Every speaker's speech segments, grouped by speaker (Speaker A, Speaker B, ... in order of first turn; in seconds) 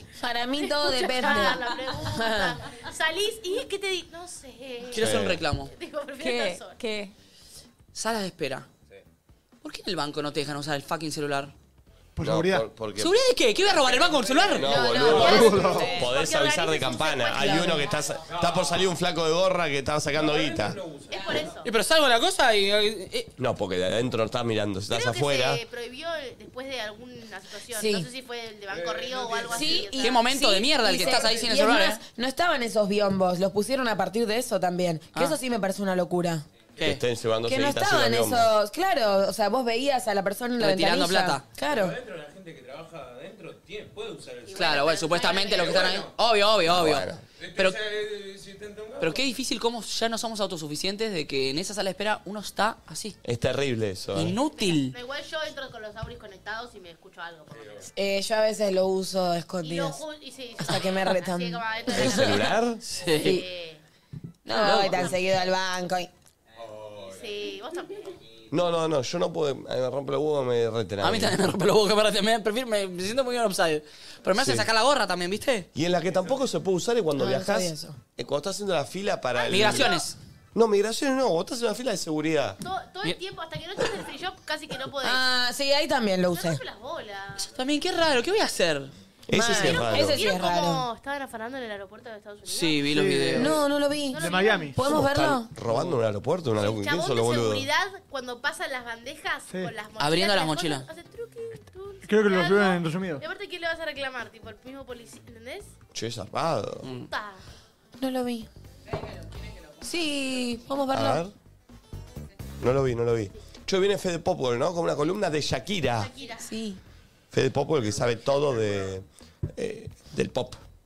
Speaker A: 0.1-2.6, 14.7-15.7, 17.4-17.8, 27.7-28.1, 29.5-36.5, 37.5-42.0, 57.9-60.0, 60.6-62.5, 64.5-66.1, 77.2-78.0, 85.0-86.6, 89.3-90.8, 93.4-95.5, 108.0-108.5, 109.8-111.2, 116.4-116.8
Speaker B: 0.8-5.1, 5.7-6.8, 15.1-18.1, 21.1-21.7, 24.9-30.3, 31.0-31.2, 44.5-45.9, 54.5-57.8, 59.6-62.5, 63.2-63.8, 67.1-68.1, 79.4-80.1, 82.6-85.3, 86.3-87.5, 89.6-93.0, 94.1-94.8, 96.6-105.7, 107.1-107.4, 116.0-116.5
Speaker C: 1.2-1.5, 6.2-7.1, 15.5-16.1
Speaker D: 4.9-5.7, 7.9-8.7, 9.6-11.5, 13.0-15.2, 21.6-23.3, 29.8-32.0, 40.6-41.5, 44.5-47.8, 49.0-53.2, 54.1-55.0, 62.8-63.5, 64.5-65.2, 71.0-75.7, 79.5-80.2, 87.4-89.8, 92.5-93.6, 100.0-100.9, 106.8-107.1
Speaker E: 5.0-5.4, 12.2-13.2, 14.5-20.8, 23.4-25.6, 36.8-38.5, 46.7-47.2, 53.2-54.4, 61.9-62.8, 68.5-71.4, 74.3-74.7, 75.8-79.9, 80.5-82.6, 89.3-90.3, 94.8-97.7, 105.9-106.9, 110.9-111.3, 112.6-116.1, 117.3-120.6
Speaker F: 12.2-12.7, 15.3-15.9, 92.9-93.6, 94.2-94.8, 102.0-103.2
Speaker G: 14.1-14.5, 18.2-18.9, 20.1-21.6, 28.7-29.9, 41.7-44.7, 45.4-46.1, 47.4-49.2, 57.5-57.9, 66.8-67.2